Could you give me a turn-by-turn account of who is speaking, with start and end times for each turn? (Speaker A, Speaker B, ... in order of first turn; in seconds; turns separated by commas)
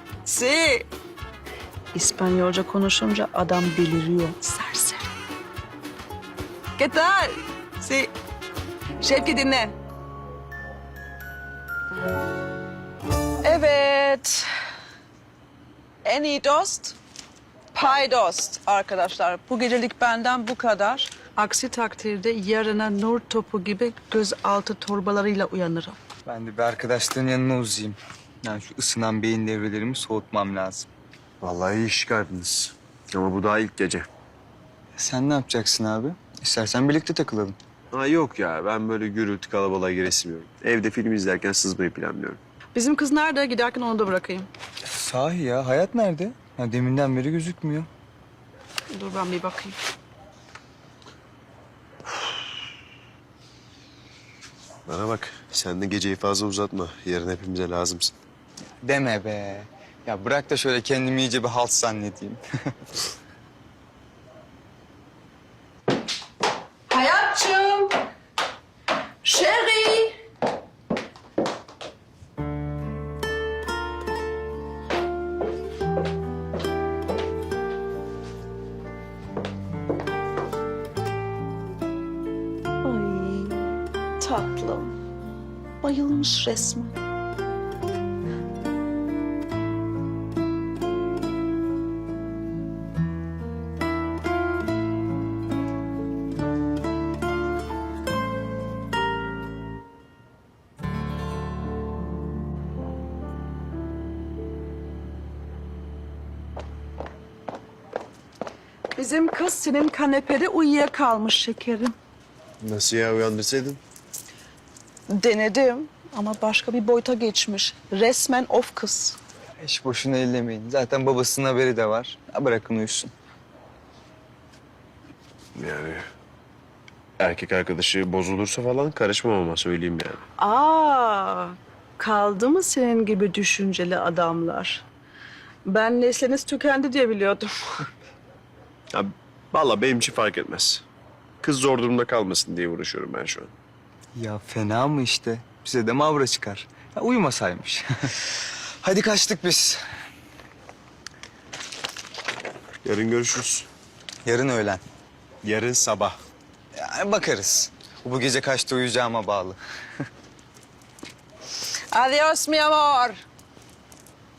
Speaker A: 0.2-0.9, Speaker A: 1.9-5.2, Speaker A: 6.8-8.1, Speaker A: 9.0-9.8, Speaker A: 13.4-14.5, Speaker A: 16.1-17.0, Speaker A: 17.7-26.0, Speaker B: 26.3-30.9, Speaker C: 31.4-34.1, Speaker B: 35.0-37.6, Speaker C: 37.9-42.4, Speaker A: 42.7-44.5, Speaker B: 44.9-47.9, Speaker A: 48.9-49.8, Speaker C: 54.9-58.1, Speaker B: 58.8-62.4, Speaker A: 66.9-68.0, Speaker A: 69.2-70.2, Speaker A: 82.8-85.0, Speaker A: 85.8-87.0, Speaker A: 109.0-112.0, Speaker C: 112.6-113.8, Speaker A: 115.1-119.2, Speaker B: 119.6-123.1, Speaker C: 125.5-126.1, Speaker C: 127.2-130.2, Speaker A: 130.4-134.8, Speaker A: 135.7-137.8, Speaker C: 138.9-140.8, Speaker C: 141.4-143.5, Speaker B: 144.2-148.3, Speaker B: 148.8-149.8, Speaker C: 152.8-153.7, Speaker B: 154.3-154.8, Speaker C: 155.4-156.2, Speaker B: 156.8-159.6, Speaker A: 161.9-163.2